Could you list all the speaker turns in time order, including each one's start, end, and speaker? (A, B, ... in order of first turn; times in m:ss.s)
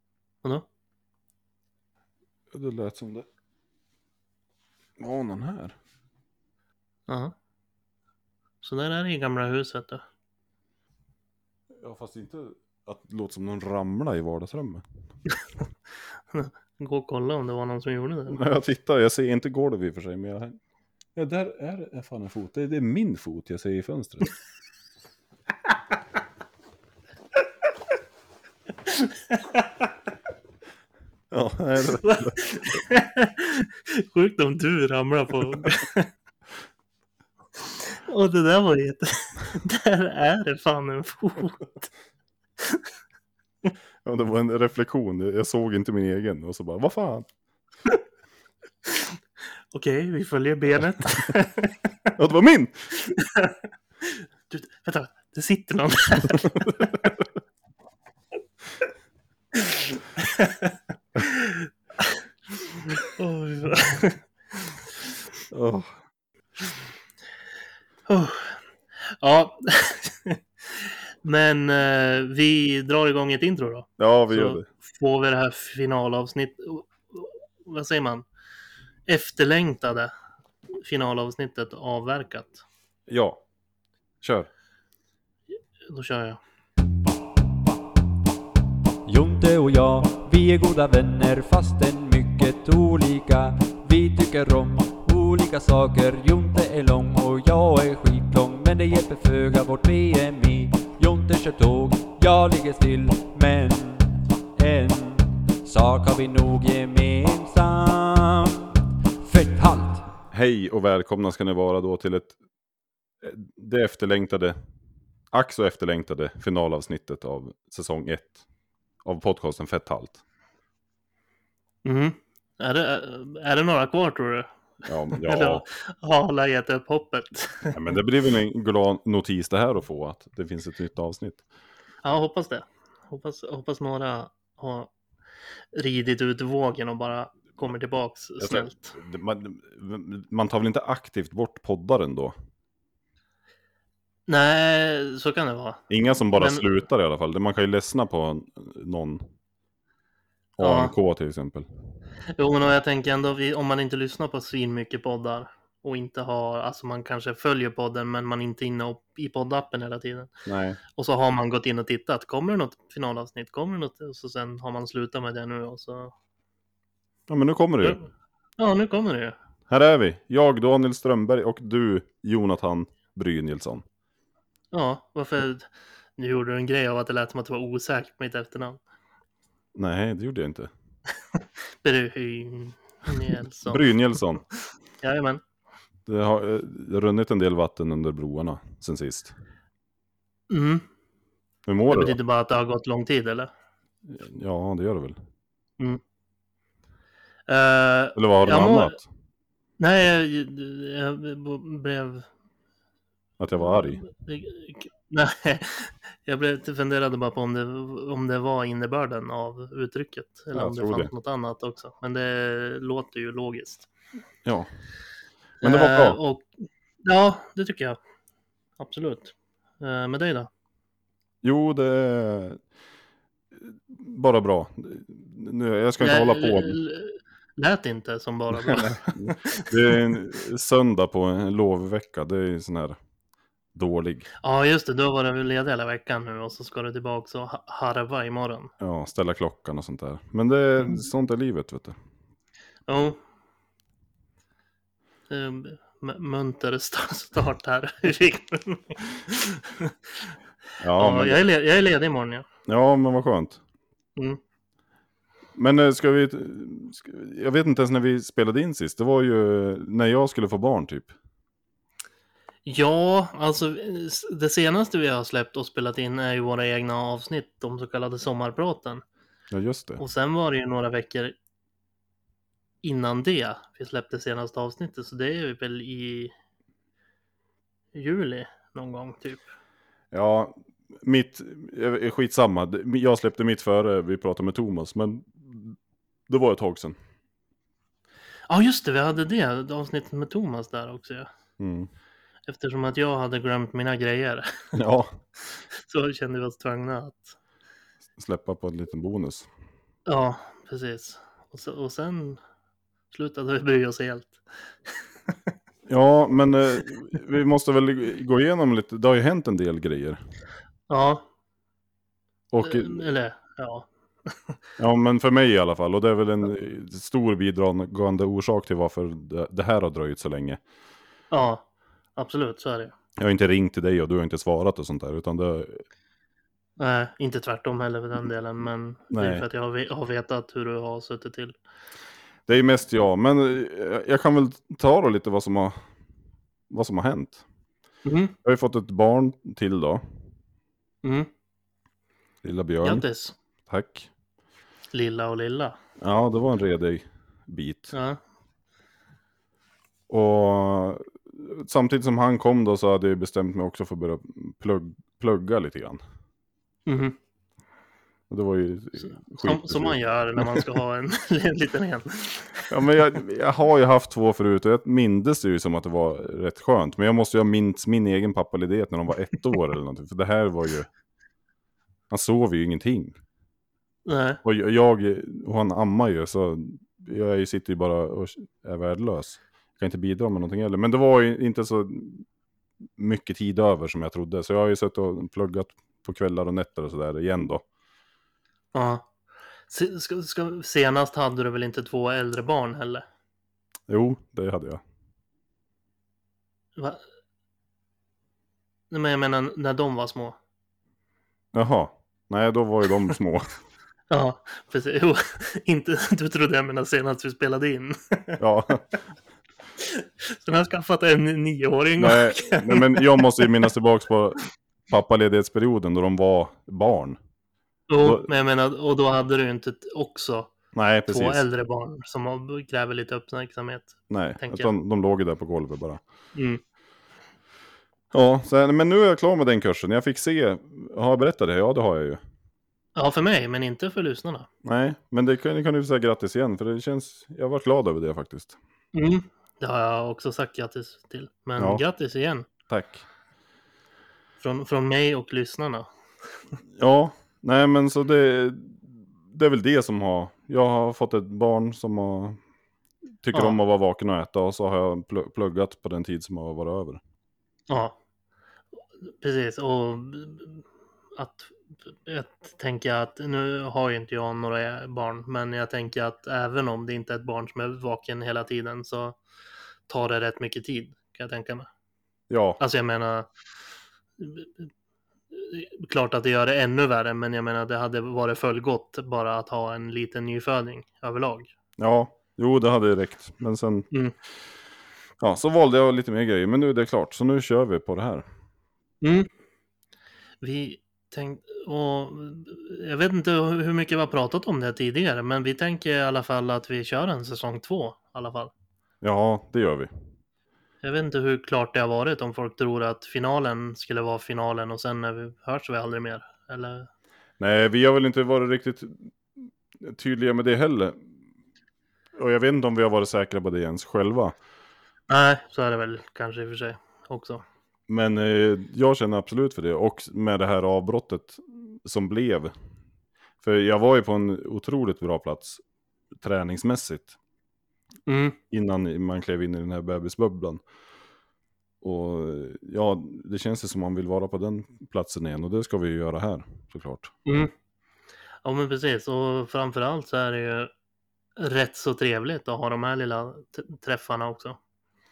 0:02.5-0:03.3 A
0:05.0-0:05.8 A
0:07.1-0:07.3 B
0:08.6-0:10.0 B
0:11.8-0:14.8 A
0:16.3-0:18.4 B
0:18.3-0:20.6 A
0:21.1-0:24.3 A
0:28.9-0:29.9 B
0:31.3-0:32.4 A
0:32.0-0:36.1 B
0:38.0-0:41.8 B
0:42.6-0:42.9 B
0:44.0-0:47.3 A
0:48.9-0:49.1 B
0:49.7-0:52.1 B
0:52.2-0:52.9 A
0:53.0-0:57.0 B
0:59.6-1:02.2 B
1:02.8-1:04.2 B
1:05.5-1:05.9 A
1:08.1-1:08.6 B
1:09.2-1:18.2 B
1:14.0-1:14.7 A
1:19.1-1:20.1 B
1:20.8-1:22.6 B
1:23.1-1:23.4 A
1:24.2-1:24.5 A
1:25.9-1:26.4 B
1:29.0-1:50.1 C
1:50.3-1:52.3 A
1:53.2-1:54.6 A
1:55.3-1:58.4 A
1:59.0-2:00.2 A
2:01.8-2:04.6 B
2:04.9-2:05.6 A
2:05.1-2:07.8 B
2:07.7-2:11.4 A
2:12.0-2:14.9 B
2:15.7-2:18.9 B
2:18.4-2:22.3 A
2:24.3-2:25.8 B
2:25.9-2:29.2 A
2:26.3-2:26.6 B
2:30.6-2:31.7 A
2:30.6-2:30.9 B
2:32.4-2:40.3 B
2:40.4-2:40.8 A
2:41.0-2:46.1 B
2:47.3-2:48.0 A
2:48.6-2:49.4 B
2:49.7-2:53.8 A
2:54.7-2:58.8 B
2:59.8-3:00.7 A
3:01.4-3:03.9 B
3:03.7-3:04.4 A
3:05.0-3:05.4 B
3:06.1-3:09.3 A
3:10.5-3:10.8 B
3:11.7-3:12.2 A
3:11.9-3:13.5 B
3:14.1-3:15.2 A
3:17.5-3:19.0 B
3:18.2-3:19.1 A
3:19.8-3:22.3 B
3:23.4-3:24.0 A
3:24.0-3:33.9 B
3:30.5-3:31.1 A
3:34.4-3:34.7 A
3:35.6-3:36.2 A
3:35.6-3:38.0 B
3:38.8-3:40.5 B
3:41.4-3:42.6 A
3:43.5-3:46.8 A
3:46.0-3:49.7 B
3:48.6-3:53.0 A
3:53.7-3:54.3 A
3:54.4-3:58.7 B
3:58.8-4:02.0 A
4:02.9-4:03.2 B
4:05.3-4:10.3 B
4:10.8-4:11.4 A
4:11.0-4:12.4 B
4:12.7-4:13.6 A
4:15.6-4:21.1 A
4:22.6-4:29.0 B
4:29.5-4:30.0 A
4:30.0-4:31.4 B
4:32.8-4:36.3 B
4:37.9-4:39.4 B
4:40.1-4:45.8 A
4:46.3-4:47.0 A
4:48.5-4:51.3 B
4:51.6-4:51.9 A
4:52.5-4:54.7 B
4:54.8-4:55.2 A
4:55.5-4:57.4 B
4:58.2-4:59.5 A
5:00.1-5:02.4 B
5:03.1-5:04.4 B
5:05.9-5:10.2 A
5:10.9-5:11.2 B
5:12.5-5:13.0 A
5:12.6-5:14.6 B
5:14.8-5:20.6 A
5:21.3-5:22.9 B
5:23.2-5:25.8 A
5:26.8-5:31.6 B
5:29.1-5:29.4 A
5:32.5-5:35.8 A
5:36.7-5:37.4 A
5:38.0-5:38.3 B
5:38.4-5:40.0 A
5:41.0-5:41.3 B
5:42.4-5:43.1 A
5:42.8-5:43.4 B
5:43.7-5:44.1 A
5:44.9-5:45.8 B
5:46.0-5:47.9 A
5:47.9-5:48.2 B
5:50.1-5:56.0 A
5:56.9-5:57.2 B
5:58.3-6:00.6 A
5:59.1-6:02.7 B
6:02.7-6:10.9 A
6:12.1-6:13.2 A
6:14.1-6:14.4 B
6:14.4-6:22.2 A
6:23.0-6:27.6 A
6:28.7-6:29.1 B
6:29.7-6:33.0 B
6:33.9-6:34.8 A
6:36.8-6:37.0 B
6:38.9-6:40.4 B
6:41.5-6:43.6 A
6:44.1-6:48.4 B
6:48.4-6:48.8 A
6:49.8-6:53.5 B
6:52.0-6:57.2 A
6:57.9-7:00.6 B
6:58.0-6:58.2 A
7:00.7-7:01.4 A
7:01.1-7:04.7 B
7:04.1-7:06.0 A
7:06.3-7:06.6 B
7:08.1-7:12.2 A
7:13.0-7:14.5 B
7:14.6-7:18.6 A
7:18.9-7:22.5 B
7:21.6-7:21.8 A
7:22.7-7:23.0 A
7:24.4-7:25.9 B
7:26.8-7:32.4 A
7:33.2-7:37.0 A
7:37.7-7:38.0 B
7:39.0-7:40.6 B
7:41.1-7:49.2 B
7:49.9-7:51.7 B
7:52.3-7:52.6 A
7:52.6-7:53.3 B
7:54.2-7:54.7 B
7:55.3-8:01.5 B
8:01.8-8:03.9 A
8:05.2-8:08.2 A
8:09.0-8:09.3 B
8:10.4-8:18.5 B
8:19.0-8:19.9 A
8:20.8-8:26.9 B
8:27.4-8:31.0 A
8:32.1-8:34.4 A
8:35.1-8:37.4 B
8:37.9-8:42.5 A
8:43.4-8:45.6 A
8:46.2-8:47.2 A
8:48.1-8:48.4 B
8:48.5-8:50.6 A
8:51.8-8:57.2 A
8:57.2-8:57.5 B
8:58.4-9:00.7 B
9:01.4-9:04.6 B